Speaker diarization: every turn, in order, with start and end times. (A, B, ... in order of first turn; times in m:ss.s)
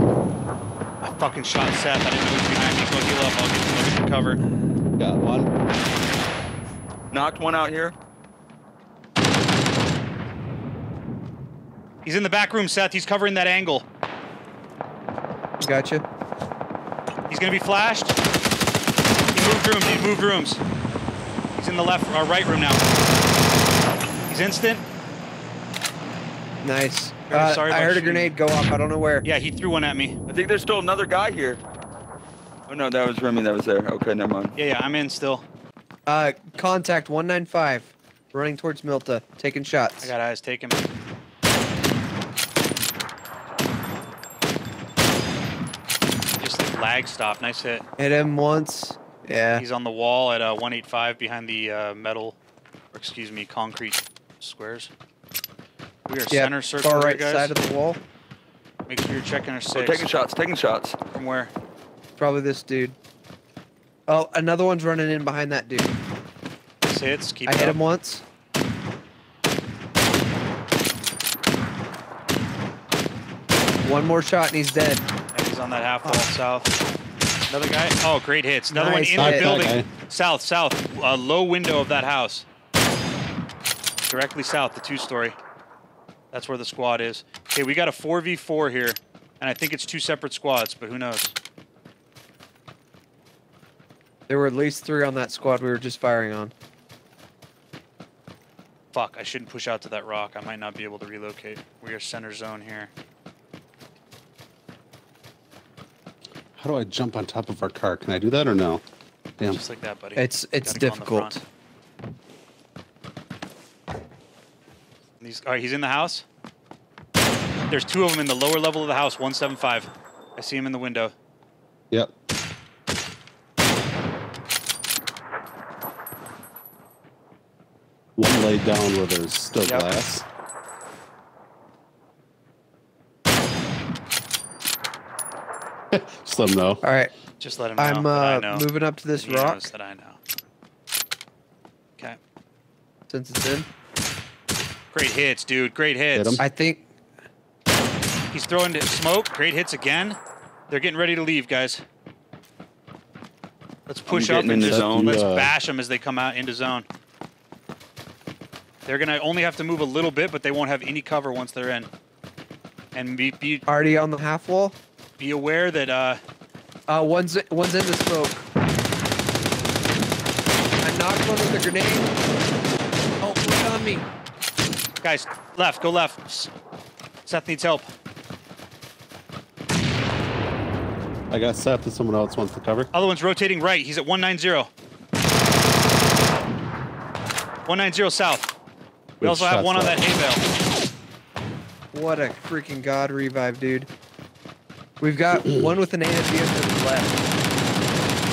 0:01.0-0:04.4 A
0:05.0-0:05.5 B
0:07.1-0:07.9 C
0:12.0-0:13.9 A
0:15.6-0:16.0 D
0:17.3-0:18.2 A
0:19.3-0:20.6 A
0:21.6-0:22.9 A
0:24.3-0:24.8 A
0:26.6-0:29.3 D
0:27.3-0:28.4 A
0:29.2-0:30.2 A
0:30.3-0:31.6 C
0:32.7-0:34.6 C
0:34.6-0:35.4 A
0:36.1-0:40.1 D
0:40.0-0:40.8 A
0:46.4-0:47.9 A
0:48.0-0:49.6 D
0:49.6-0:52.4 A
0:52.9-0:54.9 A
0:56.1-0:57.5 A
0:56.3-0:58.0 D
0:58.9-1:00.1 A
0:59.7-1:01.0 C
1:01.1-1:01.5 A
1:02.2-1:03.0 D
1:04.1-1:05.9 D
1:06.8-1:07.8 A
1:07.5-1:08.2 D
1:13.8-1:15.0 D
1:15.3-1:16.7 A
1:17.5-1:22.5 A
1:18.7-1:19.7 D
1:19.2-1:19.9 B
1:24.1-1:25.4 A
1:26.3-1:31.4 A
1:34.3-1:36.5 D
1:38.9-1:42.9 A
1:46.6-1:48.8 B
1:49.5-1:51.4 A
1:50.2-1:51.4 D
1:55.2-1:56.2 A
1:57.7-2:01.1 A
2:08.2-2:10.2 B
2:09.6-2:09.9 A
2:15.9-2:16.8 B
2:16.8-2:17.1 D
2:17.4-2:20.2 A
2:17.8-2:19.7 D
2:23.1-2:23.7 D
2:24.9-2:26.4 A
2:26.1-2:26.4 B
2:26.4-2:26.9 D
2:28.3-2:30.2 A
2:30.7-2:31.8 A
2:33.9-2:36.9 A
2:34.1-2:35.2 C
2:34.6-2:35.5 B
2:38.8-2:41.9 A
2:42.9-2:43.6 A
2:43.7-2:44.8 D
2:45.2-2:46.2 A
2:46.9-2:48.4 D
2:50.8-2:52.2 D
2:53.2-2:54.1 D
2:55.0-2:56.5 A
2:57.3-2:57.9 A
3:01.3-3:02.9 B
3:02.9-3:04.7 A
3:07.7-3:08.5 A
3:09.2-3:10.0 B
3:09.2-3:10.4 A
3:11.9-3:13.9 D
3:15.0-3:17.3 D